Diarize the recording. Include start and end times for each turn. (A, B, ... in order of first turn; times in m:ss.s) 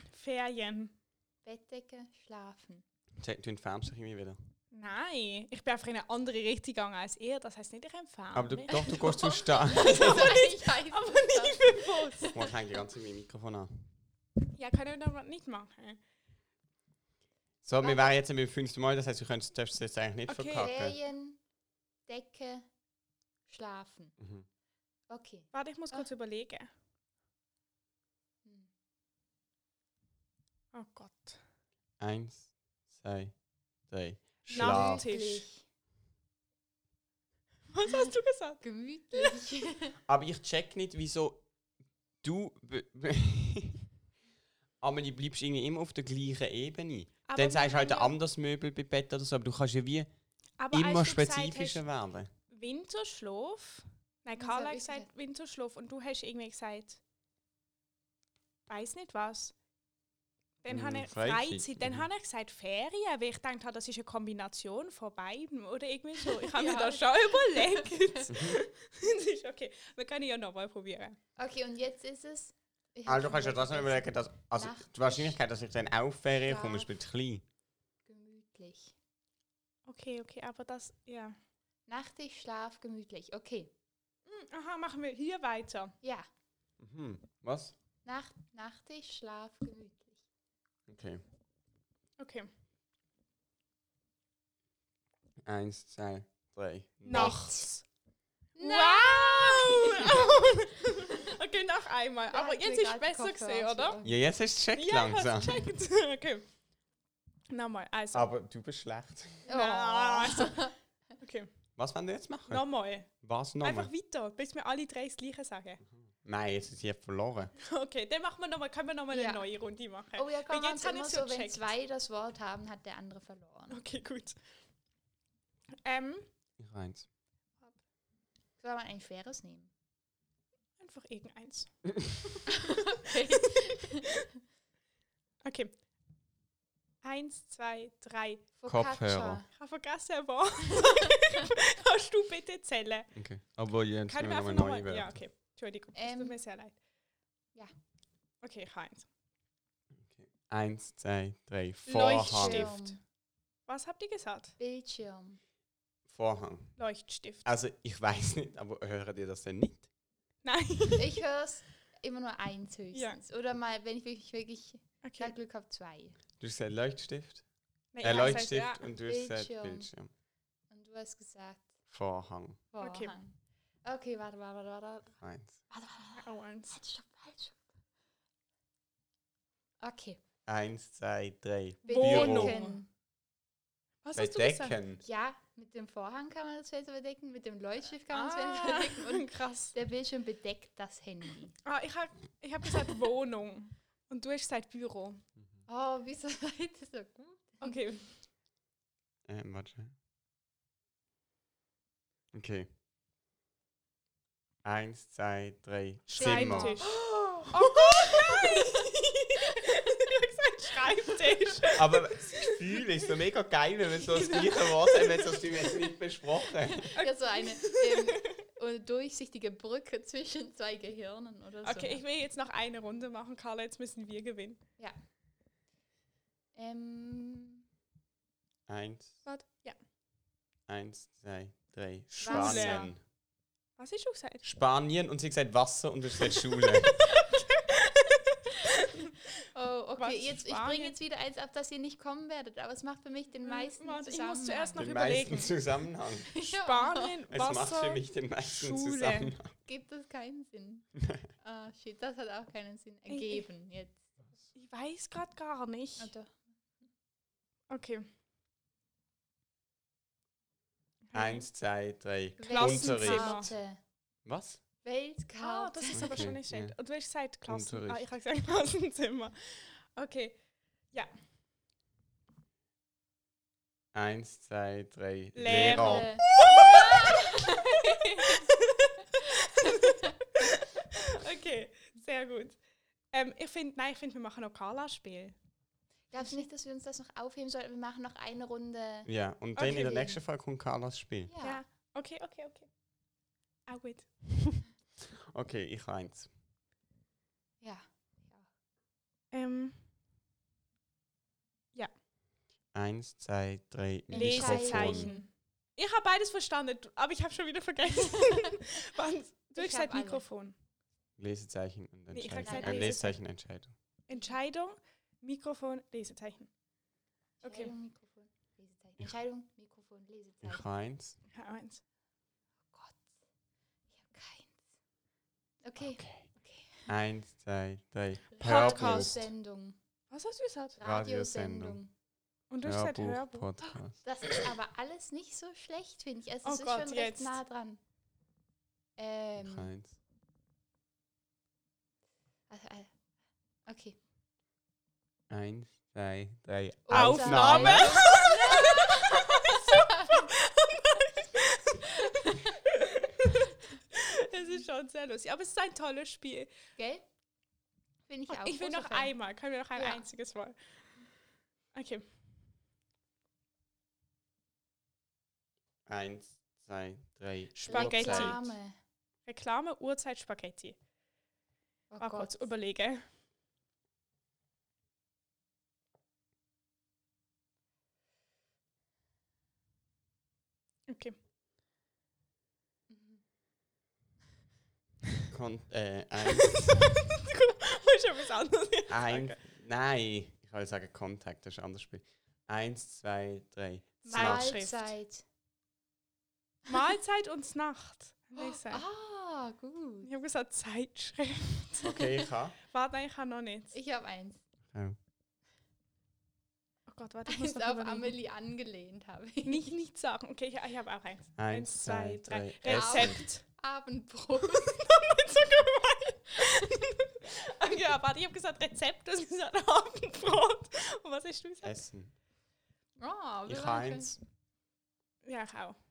0:00.1-0:00.9 A
0:01.4-0:02.8 B
0:03.2-0:04.4 C
0:04.7-0:12.3 A
0:08.3-0:10.2 C
0:09.7-0:12.4 B
0:12.3-0:13.8 C
0:14.5-0:16.0 A
0:17.6-0:21.0 C
0:17.8-0:18.2 B
0:20.3-0:20.7 A
0:20.5-0:21.4 B
0:22.1-0:22.7 B
0:23.5-0:24.1 B
0:24.2-0:24.4 C
0:25.1-0:26.1 B
0:25.5-0:26.7 A
0:30.7-0:31.4 A
0:32.0-0:35.1 C
0:34.5-0:35.5 A
0:34.5-0:35.6 B
0:37.7-0:38.6 A
0:38.6-0:40.0 B
0:40.1-0:41.5 C
0:42.2-0:43.9 C
0:44.8-0:50.1 C
0:47.3-0:48.1 A
0:50.6-0:51.8 A
0:50.7-0:52.3 C
0:52.5-0:57.0 A
0:54.4-0:55.1 B
0:58.7-0:59.5 A
1:00.6-1:11.2 A
1:00.7-1:02.1 C
1:06.2-1:08.1 B
1:08.3-1:08.6 C
1:11.4-1:15.4 B
1:13.0-1:17.4 C
1:16.4-1:16.9 B
1:18.0-1:18.9 B
1:19.9-1:21.4 A
1:21.9-1:23.7 B
1:24.3-1:25.9 A
1:26.0-1:26.3 B
1:26.8-1:27.7 C
1:28.0-1:30.1 B
1:30.9-1:31.2 C
1:32.2-1:32.5 A
1:35.4-1:37.5 C
1:37.0-1:37.8 A
1:37.1-1:37.6 B
1:38.6-1:40.4 B
1:38.6-1:44.0 A
1:42.3-1:44.2 B
1:44.0-1:45.6 C
1:44.8-1:46.4 A
1:47.5-1:48.3 A
1:48.1-1:49.4 C
1:49.5-1:50.7 B
1:49.5-1:50.7 A
1:51.2-1:51.5 A
1:51.8-1:53.9 C
1:52.5-1:53.1 A
1:53.6-1:55.8 A
1:56.0-1:57.5 C
1:57.6-2:01.6 A
1:59.1-1:59.4 B
2:00.1-2:03.8 B
2:03.7-2:04.4 A
2:05.8-2:06.3 A
2:06.6-2:07.1 C
2:08.6-2:09.7 B
2:10.8-2:12.4 A
2:12.6-2:14.1 B
2:15.4-2:15.7 A
2:17.0-2:18.4 A
2:18.6-2:19.5 B
2:18.6-2:19.4 C
2:19.6-2:23.1 A
2:23.1-2:25.2 C
2:24.1-2:26.8 A
2:25.9-2:26.4 B
2:28.4-2:29.1 A
2:30.0-2:32.8 C
2:31.8-2:32.9 A
2:32.0-2:33.0 B
2:33.6-2:34.5 A
2:34.6-2:35.4 B
2:36.1-2:39.9 C
2:36.8-2:37.4 A
2:40.4-2:41.1 A
2:41.0-2:46.2 B
2:42.9-2:43.2 A
2:45.0-2:45.3 A
2:46.4-2:47.4 C
2:47.9-2:48.8 A
2:48.0-2:50.1 C
2:48.0-2:48.4 B
2:49.0-2:49.9 B
2:50.7-2:51.7 B
2:51.9-2:52.6 C
2:52.7-2:55.2 B
2:52.8-2:53.1 A
2:55.2-2:55.6 C
2:55.7-2:57.6 B
2:56.2-2:56.8 A
2:59.8-3:00.2 B
3:00.4-3:02.6 C
3:01.8-3:02.9 B
3:01.9-3:02.8 A
3:04.0-3:04.8 A
3:04.1-3:05.0 C
3:05.0-3:11.6 B
3:08.1-3:09.7 A
3:11.6-3:15.2 A
3:15.7-3:17.9 B
3:17.6-3:18.1 A
3:19.3-3:19.9 C
3:22.3-3:22.7 C
3:24.6-3:26.8 C
3:26.1-3:32.4 A
3:26.1-3:28.8 B
3:31.8-3:36.9 C
3:34.2-3:35.0 A
3:36.7-3:42.0 B
3:36.9-3:38.0 A
3:41.6-3:44.6 A
3:46.5-3:47.6 B
3:48.7-3:49.2 C
3:49.2-3:49.8 A
3:50.7-3:53.0 C
3:52.2-3:52.9 B
3:52.2-3:53.0 A
3:53.8-3:54.4 A
3:54.4-3:57.0 C
3:57.8-3:58.1 A
3:59.5-4:05.2 B
4:00.0-4:01.0 A
4:03.4-4:05.6 A
4:04.8-4:06.4 C
4:06.3-4:07.2 B
4:06.4-4:09.3 A
4:07.3-4:09.5 C
4:09.6-4:14.0 B
4:13.1-4:13.5 A
4:14.5-4:16.1 A
4:16.0-4:16.3 B
4:17.7-4:18.0 A
4:21.1-4:21.5 A
4:21.1-4:23.5 C
4:22.4-4:23.8 B
4:22.5-4:23.5 A
4:24.2-4:24.6 C
4:24.8-4:26.4 B
4:25.4-4:31.1 A
4:25.9-4:26.8 C
4:27.4-4:28.1 C
4:33.9-4:36.2 C
4:35.3-4:37.1 A
4:35.4-4:38.4 B
4:38.2-4:45.3 A
4:46.1-4:49.1 B
4:46.2-4:46.4 A
4:49.0-4:51.3 C
4:49.6-4:49.9 A
4:49.6-4:50.2 B
4:51.3-4:51.6 B
4:51.4-4:52.7 A
4:53.6-4:54.6 A
4:55.3-4:56.3 C
4:57.6-4:58.5 B
4:59.3-4:59.8 A
5:02.7-5:05.1 C
5:04.1-5:05.2 B
5:04.1-5:10.6 A
5:09.6-5:10.3 B
5:11.2-5:13.7 C
5:12.1-5:13.2 A
5:12.4-5:13.0 B
5:14.1-5:16.5 A
5:17.4-5:17.7 A
5:17.4-5:20.7 B
5:20.4-5:21.2 C
5:21.3-5:21.8 A
5:22.7-5:23.0 B
5:23.9-5:24.5 B
5:25.6-5:26.9 B
5:25.8-5:26.4 C
5:26.9-5:29.3 C
5:28.4-5:29.8 B
5:28.4-5:29.2 A
5:30.1-5:30.8 A
5:30.8-5:31.9 B
5:30.8-5:31.8 C
5:32.5-5:33.5 A
5:32.6-5:34.0 C
5:33.6-5:37.8 B
5:36.4-5:37.4 A
5:39.0-5:39.7 B
5:39.4-5:40.0 C
5:42.5-5:42.9 B
5:43.6-5:44.0 B
5:45.3-5:48.2 C
5:46.9-5:49.2 B
5:46.9-5:51.9 A
5:52.9-5:53.3 A
5:53.9-5:56.5 A
5:56.8-5:57.0 B
5:58.1-6:00.1 B
5:58.3-6:00.6 A
6:01.7-6:02.0 A
6:05.9-6:08.4 C
6:07.5-6:08.4 A
6:07.7-6:08.8 B
6:09.2-6:10.8 A
6:11.9-6:12.5 B
6:12.0-6:13.0 A
6:20.9-6:21.2 A
6:22.9-6:23.2 B
6:25.3-6:26.6 C
6:26.6-6:29.4 A
6:28.9-6:34.6 C
6:34.0-6:35.2 B
6:34.1-6:34.9 A
6:36.6-6:38.8 A
6:38.4-6:40.1 B
6:40.0-6:41.9 A
6:41.8-6:42.6 C
6:42.7-6:43.8 A
6:43.7-6:44.4 B
6:46.9-6:48.2 A
6:47.3-6:49.7 B
6:49.4-6:53.4 A
6:51.4-6:53.2 C
6:52.6-6:54.9 B
6:54.6-7:01.8 A
7:01.6-7:02.1 C
7:03.0-7:04.1 B
7:03.5-7:04.2 C
7:05.2-7:05.8 A